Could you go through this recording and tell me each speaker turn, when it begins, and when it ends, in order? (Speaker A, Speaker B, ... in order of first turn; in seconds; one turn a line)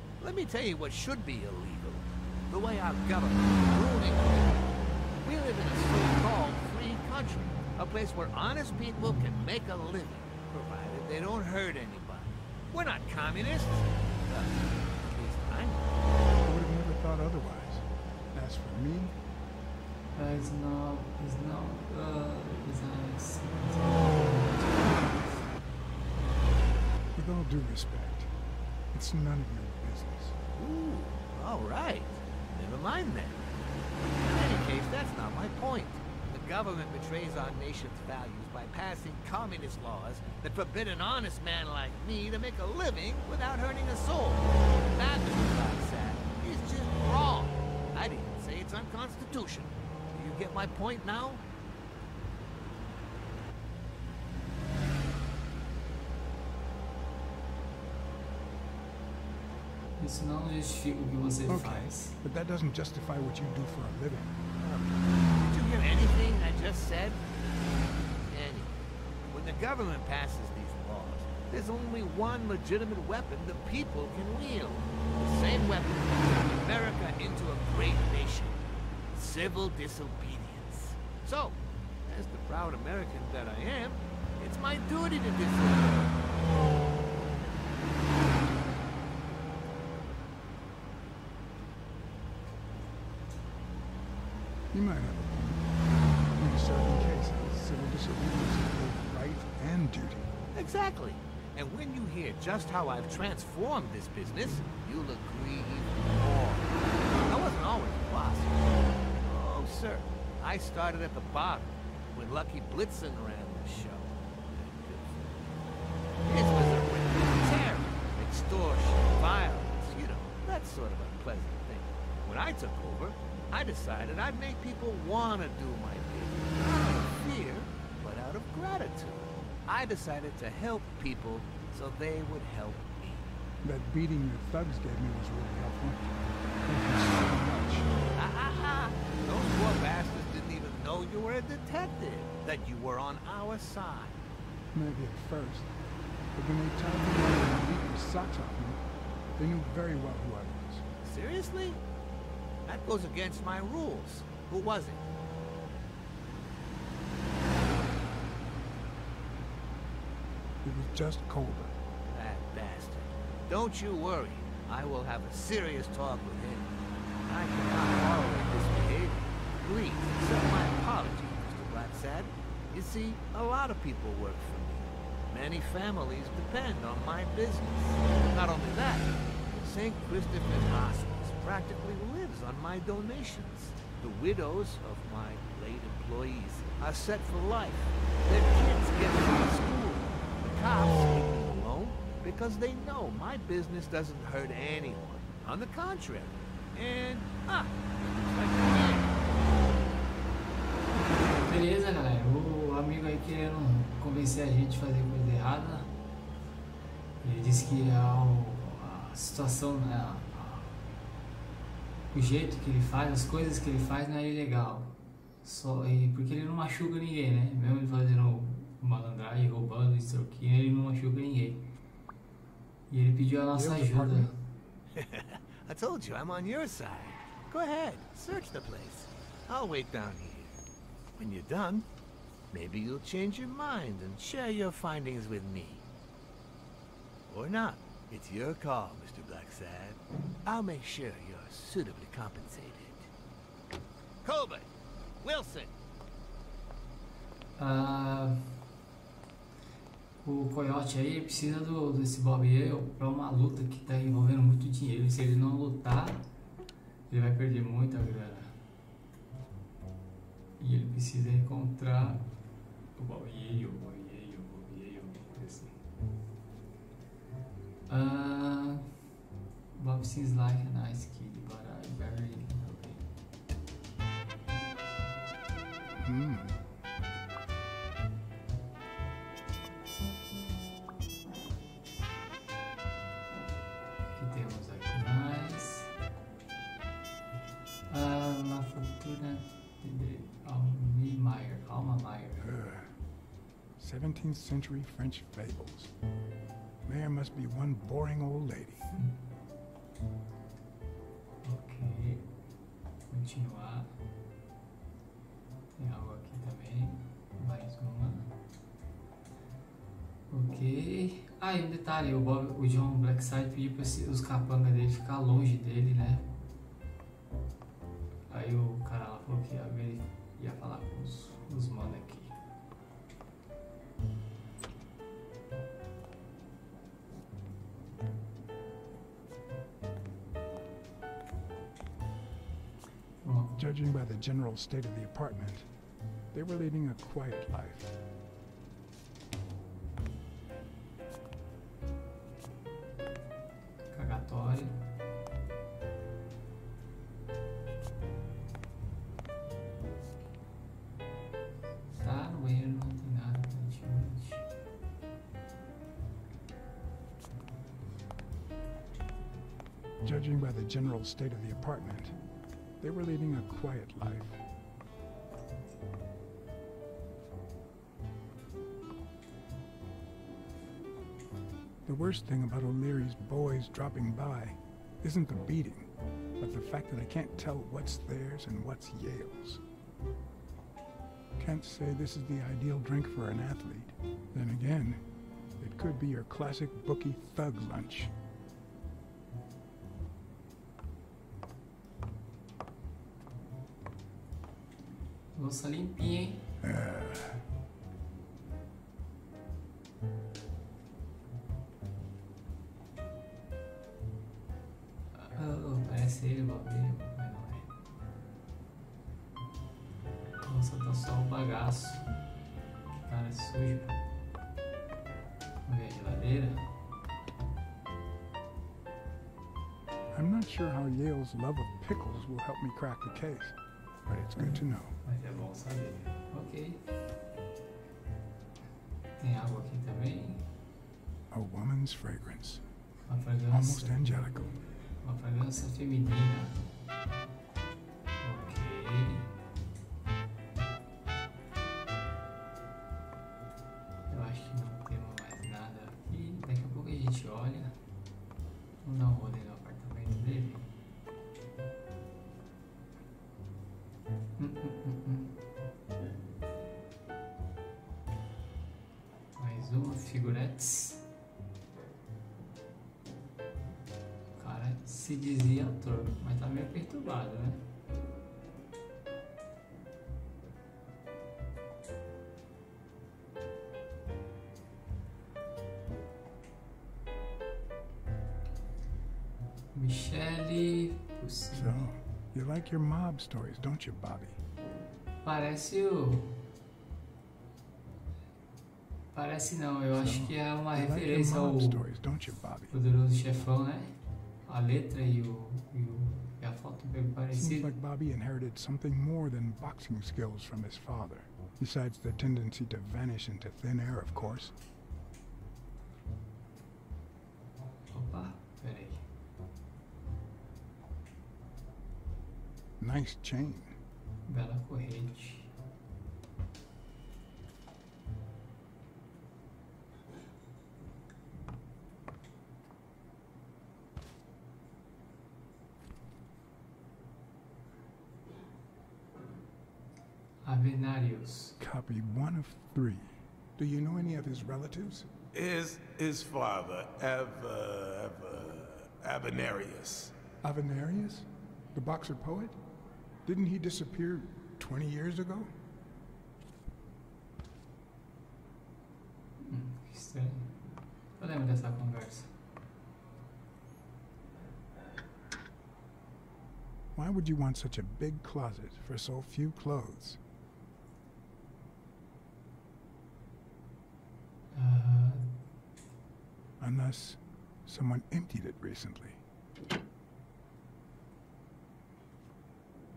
Speaker A: 0.2-16.0
Speaker B: 16.4-19.2
Speaker C: 20.1-25.3
Speaker B: 27.1-28.3
Speaker B: 28.9-30.4
Speaker A: 30.5-51.4
Speaker C: 60.0-62.1
Speaker B: 61.5-64.4
Speaker A: 64.5-67.2
Speaker A: 68.2-86.3
Speaker B: 94.7-95.8
Speaker B: 96.3-100.3
Speaker A: 100.5-115.4
Speaker A: 116.2-133.3
Speaker B: 133.6-136.1
Speaker B: 136.6-137.9
Speaker A: 138.2-144.2
Speaker B: 144.7-145.7
Speaker B: 146.3-148.8
Speaker B: 149.3-150.8
Speaker A: 151.0-151.8
Speaker A: 152.7-155.0
Speaker B: 160.6-161.7
Speaker A: 162.0-166.7
Speaker A: 167.3-197.7
Speaker A: 198.3-199.2
Speaker C: 201.4-205.9
Speaker C: 207.2-210.8
Speaker C: 212.1-221.7
Speaker C: 222.9-224.4
Speaker B: 223.5-224.3
Speaker A: 224.9-230.6
Speaker A: 231.2-231.8
Speaker A: 232.5-235.8
Speaker A: 237.3-243.1
Speaker A: 244.2-244.7
Speaker A: 245.2-245.7
Speaker C: 247.6-248.5
Speaker C: 250.2-256.2
Speaker C: 257.1-258.6
Speaker C: 260.6-262.3
Speaker C: 262.9-265.8
Speaker C: 267.9-269.0
Speaker C: 269.7-273.1
Speaker B: 276.0-276.7
Speaker C: 284.1-285.9
Speaker C: 287.9-292.5
Speaker B: 292.4-292.9
Speaker B: 293.8-295.9
Speaker B: 296.8-298.9
Speaker C: 298.9-299.2
Speaker C: 301.4-302.3
Speaker C: 303.1-303.9
Speaker C: 305.8-308.3
Speaker C: 310.3-316.3
Speaker C: 318.3-322.4
Speaker C: 333.2-333.6
Speaker B: 333.6-335.7
Speaker B: 336.3-338.0
Speaker C: 343.9-344.8
Speaker C: 351.9-354.4
Speaker B: 360.0-362.1
Speaker B: 362.8-364.4
Speaker B: 371.9-379.6
Speaker B: 381.4-385.0
Speaker B: 385.6-388.1
Speaker C: 395.3-396.5
Speaker B: 396.6-397.4
Speaker C: 405.1-407.7
Speaker C: 410.4-412.1
Speaker C: 413.0-414.0
Speaker C: 415.6-416.6
Speaker B: 420.1-424.9
Speaker C: 425.0-426.8
Speaker C: 429.2-430.4
Speaker B: 431.3-432.6
Speaker C: 433.1-436.6
Speaker B: 433.5-434.6
Speaker C: 438.2-439.3
Speaker C: 444.1-447.7
Speaker C: 448.8-450.7
Speaker C: 454.4-455.4
Speaker C: 459.4-461.0
Speaker C: 464.4-467.7
Speaker C: 479.7-481.8
Speaker B: 481.5-484.4
Speaker C: 485.2-486.4
Speaker C: 489.1-491.8
Speaker B: 489.9-492.7
Speaker C: 492.7-497.7
Speaker B: 497.3-504.5
Speaker C: 507.9-509.0
Speaker B: 512.8-513.7
Speaker C: 514.3-515.5
Speaker C: 530.4-531.5
Speaker B: 531.6-535.1
Speaker D: 535.3-540.1
Speaker B: 540.4-542.6
Speaker B: 543.2-545.5
Speaker C: 549.4-550.5
Speaker C: 551.2-552.3
Speaker B: 556.9-560.2
Speaker C: 564.5-565.3
Speaker B: 566.6-569.2